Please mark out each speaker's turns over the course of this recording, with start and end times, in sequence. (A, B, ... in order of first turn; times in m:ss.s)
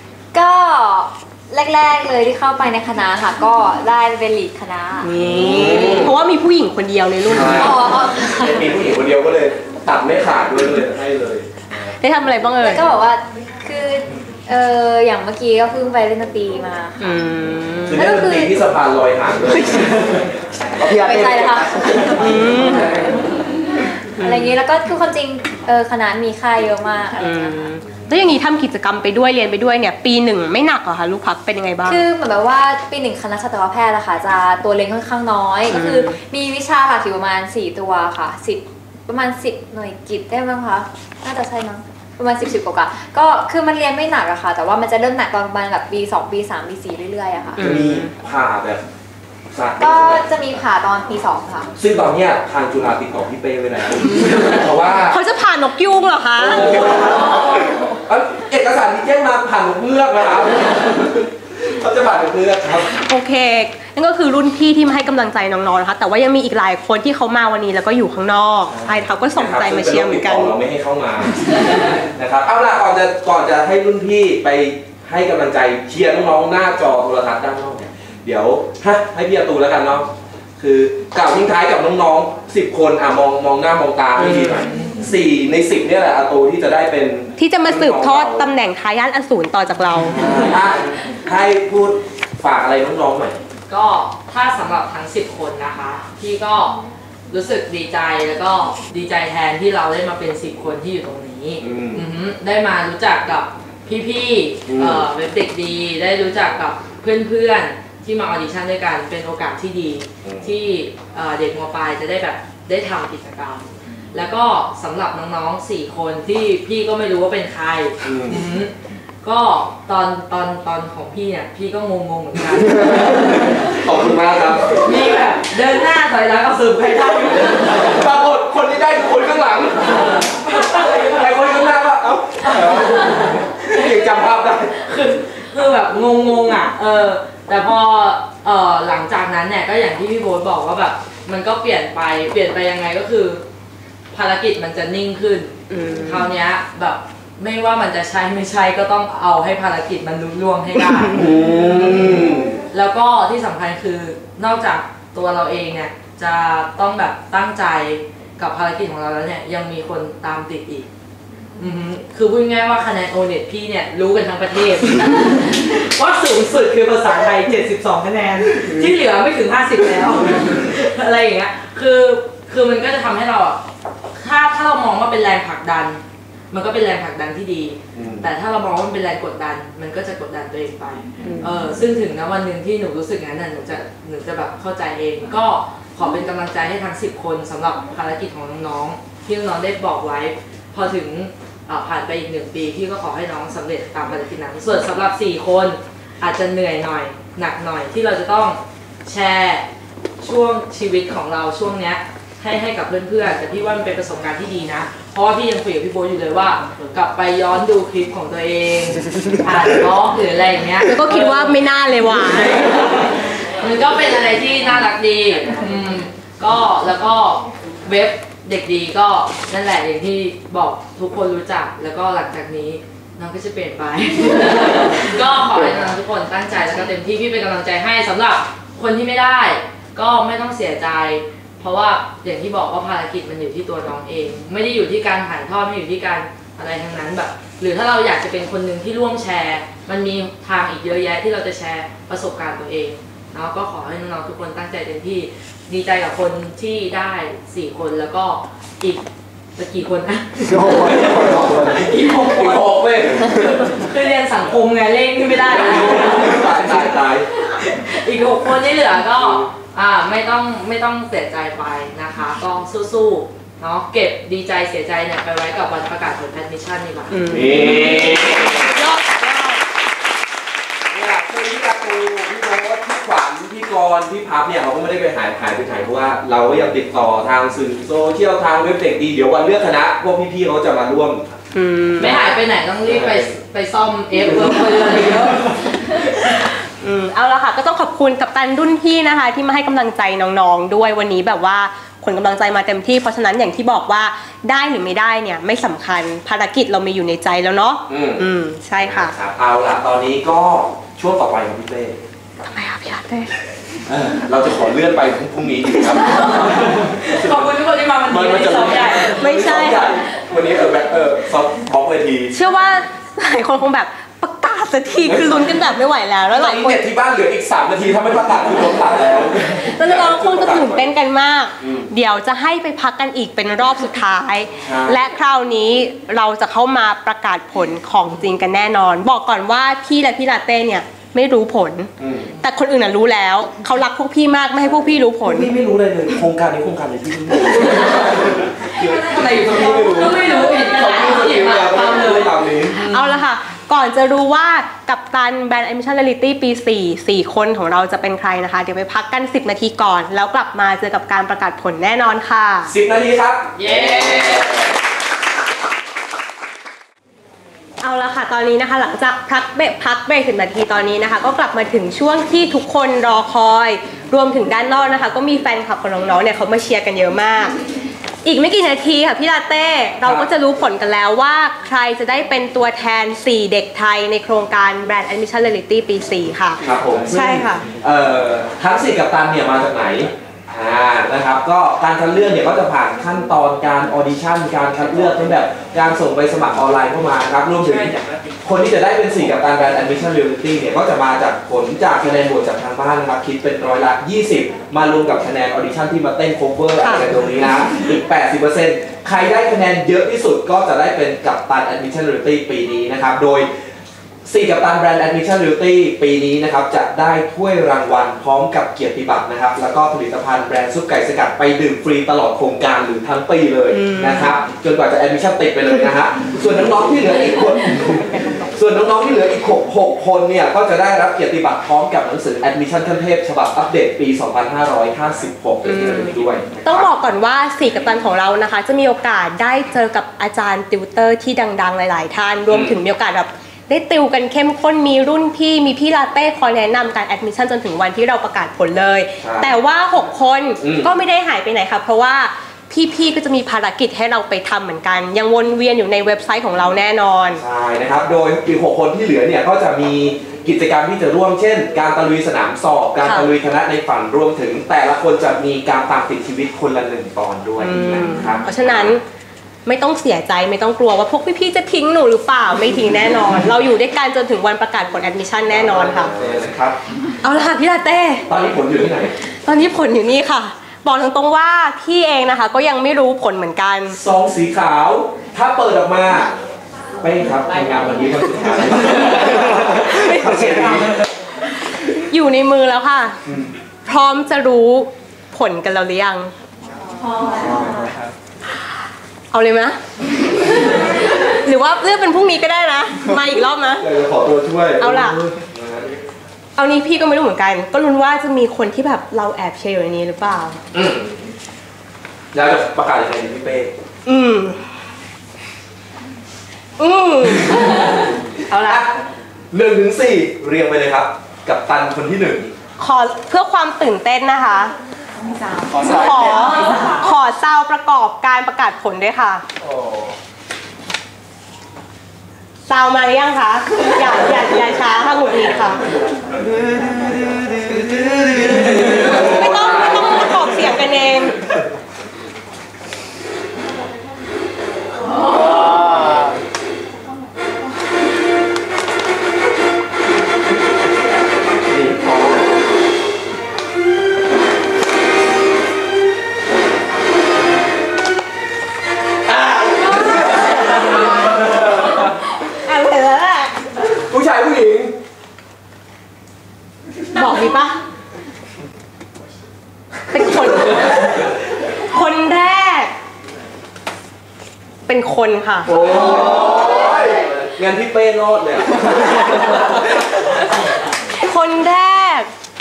0:00.3-0:05.1 A
0:05.0-0:07.8 B
0:05.2-0:06.2 C
0:07.2-0:11.5 C
0:07.5-0:08.6 A
0:11.8-0:12.8 B
0:12.6-0:17.2 A
0:17.0-0:18.1 B
0:17.9-0:21.4 C
0:18.0-0:18.6 A
0:20.8-0:22.9 A
0:22.2-0:23.1 B
0:24.2-0:24.5 B
0:24.2-0:27.6 A
0:27.2-0:32.0 B
0:31.8-0:47.7 A
0:35.7-0:36.2 B
0:47.6-0:48.1 B
0:47.6-0:48.8 C
0:49.5-0:50.3 C
0:49.8-0:51.7 A
0:51.8-0:55.2 C
0:55.1-0:57.1 B
0:56.4-1:02.9 C
1:02.8-1:10.6 B
1:08.7-1:28.5 C
1:24.2-1:25.0 D
1:27.4-1:30.4 B
1:30.1-1:33.4 C
1:33.7-2:03.5 D
1:41.6-1:42.0 C
1:44.7-1:45.1 C
1:50.2-1:50.5 C
1:58.0-1:58.4 C
2:03.6-2:04.8 C
2:04.7-2:08.1 D
2:07.8-2:10.3 C
2:10.9-2:14.7 C
2:12.6-2:23.4 D
2:24.1-2:40.9 D
2:25.7-2:26.3 B
2:31.1-2:32.6 C
2:41.6-2:53.6 D
2:48.6-2:48.9 C
2:54.1-3:19.7 D
2:57.9-2:58.3 C
3:01.2-3:01.5 B
3:20.2-3:31.6 D
3:30.8-3:32.6 B
3:32.3-4:09.0 D
4:09.6-4:16.9 D
4:10.8-4:13.7 C
4:15.4-4:17.3 C
4:17.4-4:27.2 D
4:19.2-4:19.4 C
4:27.1-4:29.6 B
4:27.3-4:28.6 C
4:30.9-4:41.3 C
4:41.5-4:42.3 B
4:42.0-4:45.7 D
4:42.8-4:43.3 C
4:46.3-4:59.1 B
4:57.9-4:58.3 C
4:58.8-5:02.0 C
5:02.4-5:03.3 B
5:03.9-5:07.5 C
5:06.3-5:09.1 D
5:08.1-5:12.4 C
5:09.1-5:10.0 B
5:12.3-5:16.8 B
5:15.0-5:15.6 C
5:16.3-5:20.9 C
5:19.5-5:35.5 B
5:21.6-5:21.9 C
5:24.6-5:25.0 C
5:32.0-5:32.3 C
5:35.2-5:42.9 C
5:38.7-5:43.2 D
5:42.9-5:52.7 B
5:52.7-5:54.6 C
5:53.6-5:54.7 D
5:57.8-6:07.6 B
6:08.2-6:17.6 B
6:10.0-6:10.3 C
6:16.6-6:43.5 C
6:27.6-6:28.0 D
6:36.8-6:37.1 B
6:44.2-7:06.9 C
6:53.7-6:54.4 B
7:05.6-7:27.4 B
7:12.5-7:12.8 C
7:19.2-7:19.6 C
7:20.6-7:20.9 C
7:27.3-7:39.0 C
7:33.0-7:33.3 B
7:37.6-7:39.0 B
7:39.6-7:46.2 B
7:45.4-7:46.8 C
7:47.2-7:48.3 B
7:48.3-7:49.1 C
7:49.4-7:54.0 B
7:53.9-7:56.3 C
7:57.0-8:01.0 C
7:59.5-8:00.9 B
8:01.8-8:03.2 B
8:03.2-8:03.5 C
8:03.8-8:06.3 B
8:07.1-8:07.5 A
8:07.4-8:08.1 C
8:09.3-8:13.9 B
8:13.8-8:15.9 C
8:14.8-8:15.2 B
8:16.6-8:20.6 B
8:20.7-8:21.3 C
8:22.3-8:23.7 C
8:24.0-8:24.7 B
8:26.8-8:28.9 B
8:28.6-8:29.0 C
8:29.5-8:32.5 C
8:32.8-8:34.7 B
8:35.6-8:39.4 B
8:39.7-8:40.0 C
8:42.6-8:45.8 B
8:48.4-8:50.6 C
8:48.9-8:51.4 B
9:01.8-9:02.2 C
9:09.4-9:09.8 C
9:12.5-9:13.5 B
9:14.1-9:14.9 C
9:17.1-9:17.8 B
9:20.1-9:22.9 B
9:24.8-9:25.7 B
9:25.6-9:29.8 C
9:31.2-9:32.3 B